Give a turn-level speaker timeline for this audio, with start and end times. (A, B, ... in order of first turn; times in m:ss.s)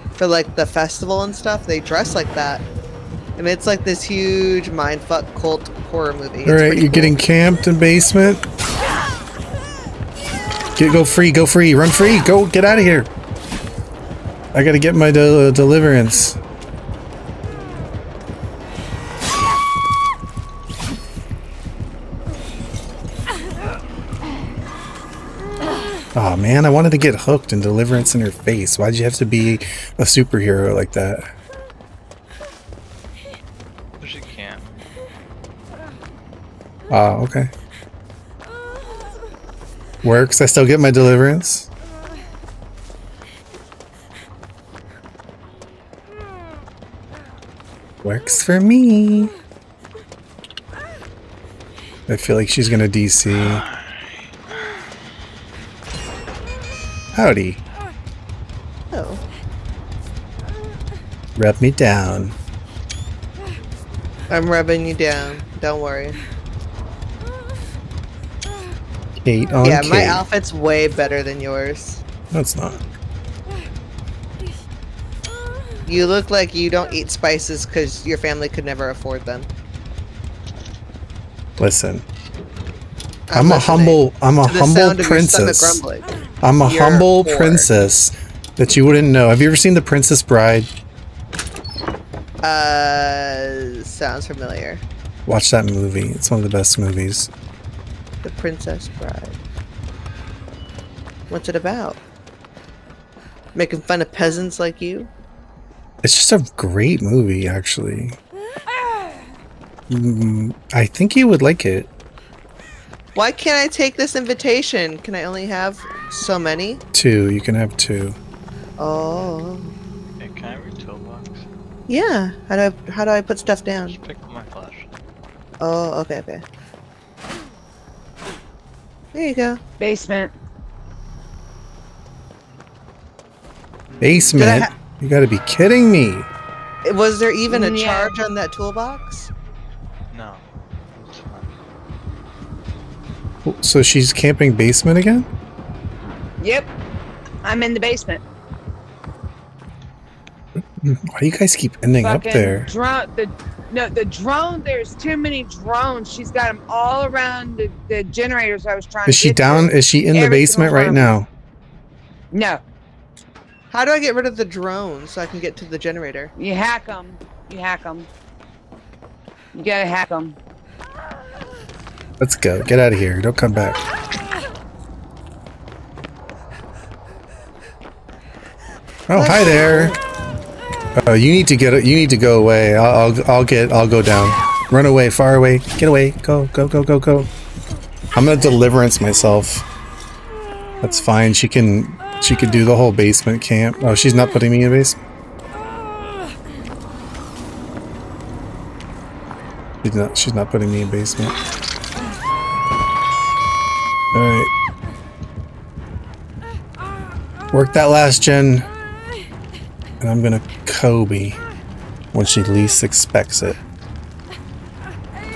0:00.2-0:02.6 A
0:03.4-0:07.2 A
0:06.4-0:08.4 B
0:10.8-0:13.1 B
0:14.5-0:16.4 B
0:26.1-0:31.3 B
0:34.0-0:34.7 C
0:36.9-0:37.5 B
0:40.0-0:41.7 B
0:48.0-0:49.3 B
0:52.1-0:53.6 B
0:53.3-0:54.9 C
0:57.1-0:57.6 B
0:58.9-0:59.2 A
1:01.4-1:02.3 B
1:04.3-1:06.2 A
1:09.2-1:10.2 B
1:09.6-1:12.0 A
1:12.3-1:12.8 B
1:15.8-1:19.5 A
1:21.6-1:22.0 B
1:23.3-1:26.1 A
1:23.3-1:25.8 B
1:26.4-1:30.7 B
1:26.6-1:27.7 A
1:32.4-1:34.8 A
1:35.2-1:37.3 B
1:38.2-1:39.4 A
1:41.3-1:42.0 A
1:43.5-1:45.1 A
1:46.0-1:48.2 B
1:49.9-1:51.9 B
1:53.1-1:56.8 A
1:56.9-1:58.2 B
1:58.8-1:59.7 A
2:00.2-2:01.4 C
2:01.9-2:04.0 A
2:03.8-2:04.9 C
2:05.6-2:06.4 A
2:09.1-2:09.6 A
2:09.8-2:10.3 D
2:13.9-2:14.2 C
2:14.0-2:16.3 B
2:14.4-2:14.7 A
2:16.8-2:19.3 A
2:17.5-2:18.2 D
2:20.1-2:21.5 C
2:23.4-2:25.3 B
2:26.4-2:26.7 D
2:27.4-2:28.2 D
2:30.8-2:32.7 B
2:32.0-2:41.1 D
2:39.0-2:41.3 B
2:42.3-2:42.6 D
2:43.7-2:46.3 A
2:46.4-2:48.1 D
2:49.5-2:50.4 D
2:52.2-2:53.8 B
2:59.1-3:00.0 B
2:59.1-3:00.0 A
3:01.0-3:07.3 B
3:08.1-3:09.6 B
3:10.8-3:15.0 B
3:19.8-3:21.4 B
3:24.1-3:24.5 B
3:27.5-3:28.6 B
3:30.0-3:31.4 B
3:32.1-3:33.6 B